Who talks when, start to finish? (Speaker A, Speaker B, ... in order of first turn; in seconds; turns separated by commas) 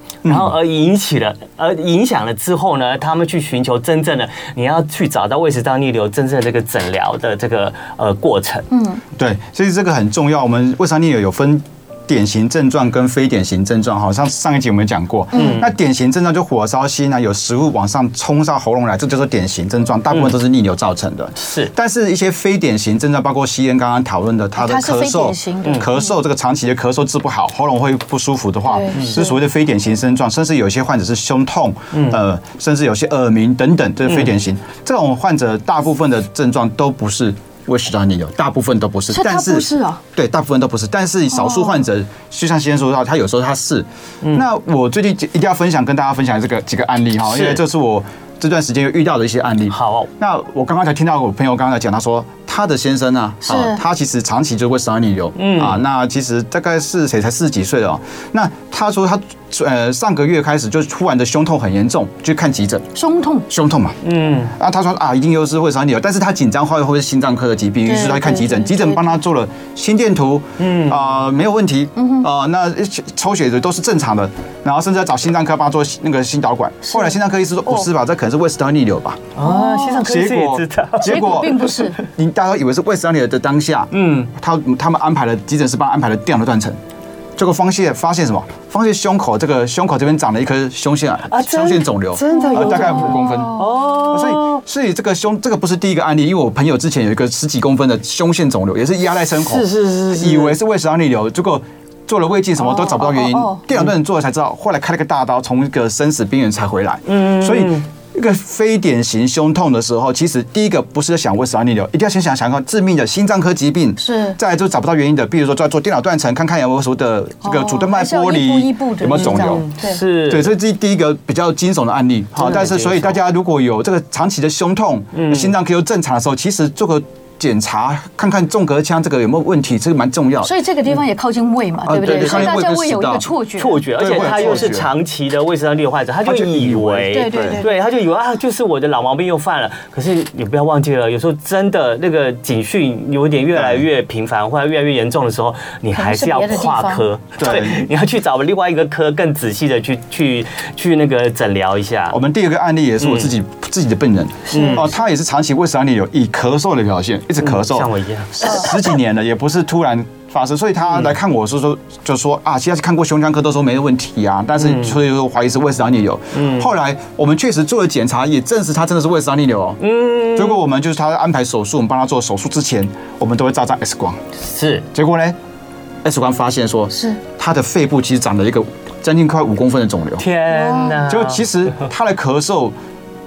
Speaker A: 0.2-0.5, Speaker B: 0.2-8.7, Speaker C: 8.7-9.0, Speaker A: 9.2-62.9, Speaker B: 15.3-15.7, Speaker C: 15.3-15.6, Speaker B: 21.4-21.7, Speaker C: 24.6-26.1, Speaker C: 28.7-29.4, Speaker B: 31.9-32.2, Speaker C: 39.1-40.0, Speaker C: 41.4-41.7, Speaker B: 47.3-47.6, Speaker B: 49.7-50.1, Speaker C: 53.5-53.8, Speaker B: 55.4-55.8, Speaker C: 63.0-63.5, Speaker A: 63.5-64.0, Speaker B: 64.0-64.5, Speaker A: 64.6-79.3, Speaker C: 67.8-69.2, Speaker B: 70.6-71.2, Speaker C: 72.0-72.3, Speaker C: 76.8-77.2, Speaker B: 79.3-82.0, Speaker C: 79.4-80.0, Speaker A: 80.0-86.8, Speaker C: 81.0-82.0, Speaker B: 83.9-84.3, Speaker A: 87.4-119.7, Speaker B: 91.3-94.6, Speaker C: 92.3-93.7, Speaker B: 99.3-100.6, Speaker C: 102.6-103.6, Speaker B: 107.1-107.9, Speaker C: 114.0-114.4, Speaker C: 117.4-120.0, Speaker B: 119.2-120.5, Speaker A: 120.3-130.6, Speaker B: 122.4-123.2, Speaker B: 125.1-125.6, Speaker C: 130.4-134.7, Speaker A: 131.8-133.3, Speaker B: 132.0-132.6, Speaker B: 133.6-152.2, Speaker A: 133.9-134.9, Speaker A: 136.2-137.6, Speaker C: 137.1-137.7, Speaker A: 143.5-143.9, Speaker C: 145.9-147.1, Speaker A: 147.4-147.8, Speaker A: 152.1-169.8, Speaker B: 153.0-153.3, Speaker C: 154.5-154.8, Speaker B: 154.5-154.9, Speaker B: 157.4-158.9, Speaker B: 164.6-164.9, Speaker B: 166.3-166.7, Speaker B: 169.8-170.6, Speaker A: 170.3-174.2, Speaker B: 174.4-174.9, Speaker A: 174.9-175.4, Speaker A: 176.0-180.3, Speaker C: 176.9-177.2, Speaker B: 180.2-181.8, Speaker C: 180.5-181.0, Speaker A: 181.1-182.7